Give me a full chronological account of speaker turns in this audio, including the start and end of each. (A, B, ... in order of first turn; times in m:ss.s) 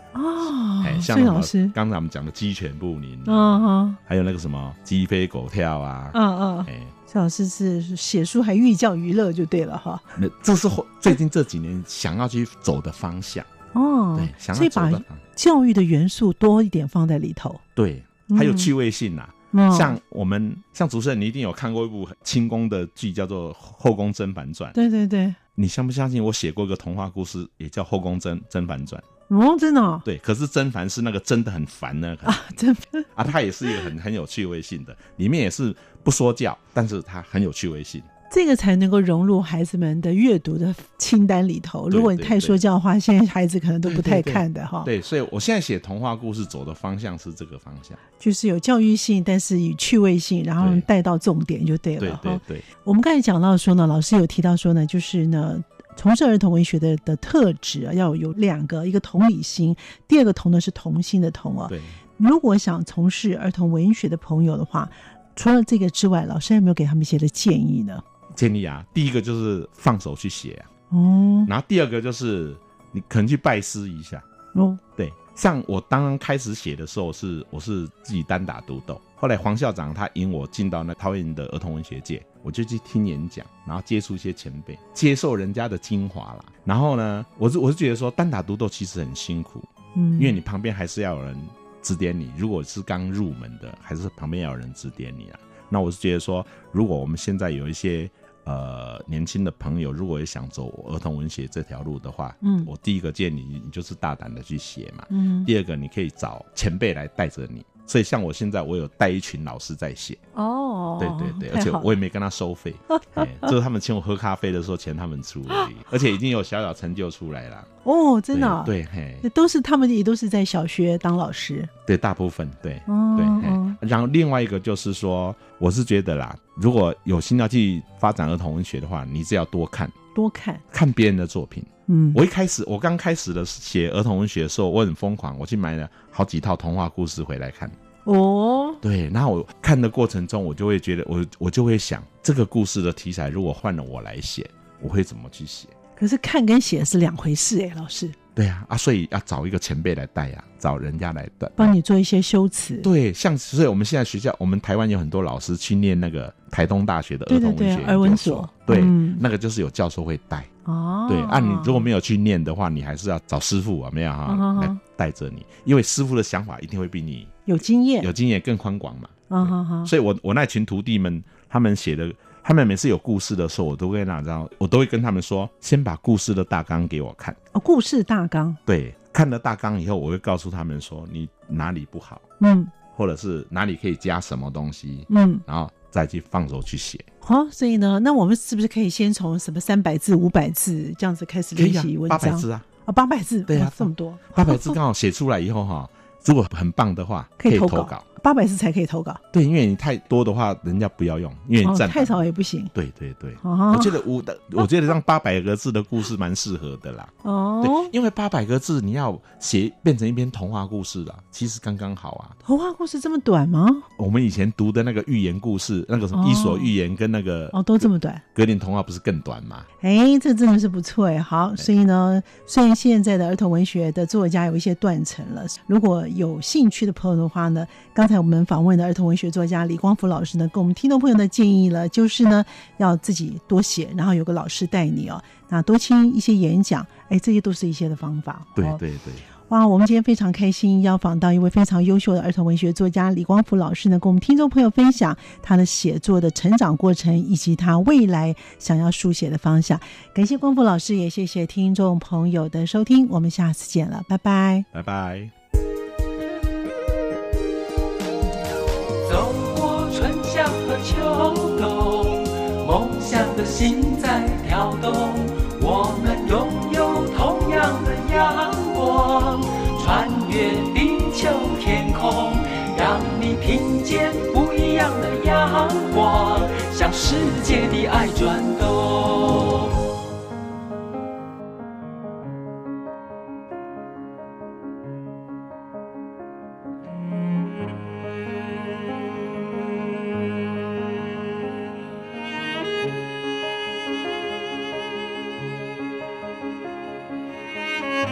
0:00.2-0:01.7 A
0:00.8-0:06.9 B
0:03.3-0:04.0 A
0:06.1-0:10.2 A
0:10.2-0:13.5 B
0:13.7-0:17.6 A
0:14.2-0:15.2 B
0:17.8-0:24.8 B
0:18.3-0:18.7 A
0:19.5-0:20.0 A
0:24.8-0:25.4 A
0:25.6-0:29.0 B
0:29.3-0:30.0 A
0:30.0-0:32.6 B
0:32.3-0:33.1 A
0:33.2-0:38.1 B
0:38.3-0:44.9 A
0:41.9-0:42.6 B
0:43.8-0:48.0 B
0:48.2-1:08.0 A
0:50.6-0:50.9 B
0:52.0-0:52.7 B
1:01.7-1:02.0 B
1:08.3-1:10.7 B
1:10.9-1:11.5 A
1:11.5-1:14.2 B
1:14.6-1:14.8 A
1:15.0-1:50.2 B
1:30.0-1:30.4 A
1:42.4-1:42.7 A
1:45.1-1:45.5 A
1:50.4-1:51.9 A
1:51.0-1:57.7 B
1:52.9-1:53.5 A
1:57.8-1:58.7 A
1:58.3-1:59.3 B
1:59.2-2:01.7 A
2:01.9-2:10.0 B
2:02.9-2:03.8 A
2:10.2-2:10.6 A
2:10.7-2:17.8 B
2:11.9-2:12.2 A
2:18.0-2:18.8 A
2:18.8-2:25.8 B
2:26.0-2:28.2 A
2:28.4-2:31.8 B
2:31.6-2:32.9 A
2:32.8-2:40.5 B
2:37.3-2:39.2 A
2:40.6-2:41.9 A
2:41.1-2:47.4 B
2:44.3-2:44.8 A
2:47.5-2:48.1 A
2:48.0-2:57.4 B
2:49.3-2:49.9 A
2:57.5-2:58.6 A
2:58.7-3:02.2 B
3:02.4-3:02.7 A
3:02.9-3:07.1 B
3:05.1-3:05.4 A
3:07.2-3:14.8 A
3:11.6-3:12.7 B
3:13.5-3:18.0 B
3:17.4-3:19.2 A
3:19.3-3:22.2 B
3:21.6-3:22.7 A
3:22.8-3:32.4 B
3:23.4-3:24.0 A
3:27.2-3:27.9 A
3:32.4-3:33.9 A
3:34.0-3:39.7 B
3:36.1-3:36.7 A
3:37.5-3:38.2 A
3:39.8-3:58.8 A
3:58.6-3:59.3 B
3:59.5-4:14.7 A
4:14.7-4:15.3 B
4:19.0-4:39.8 C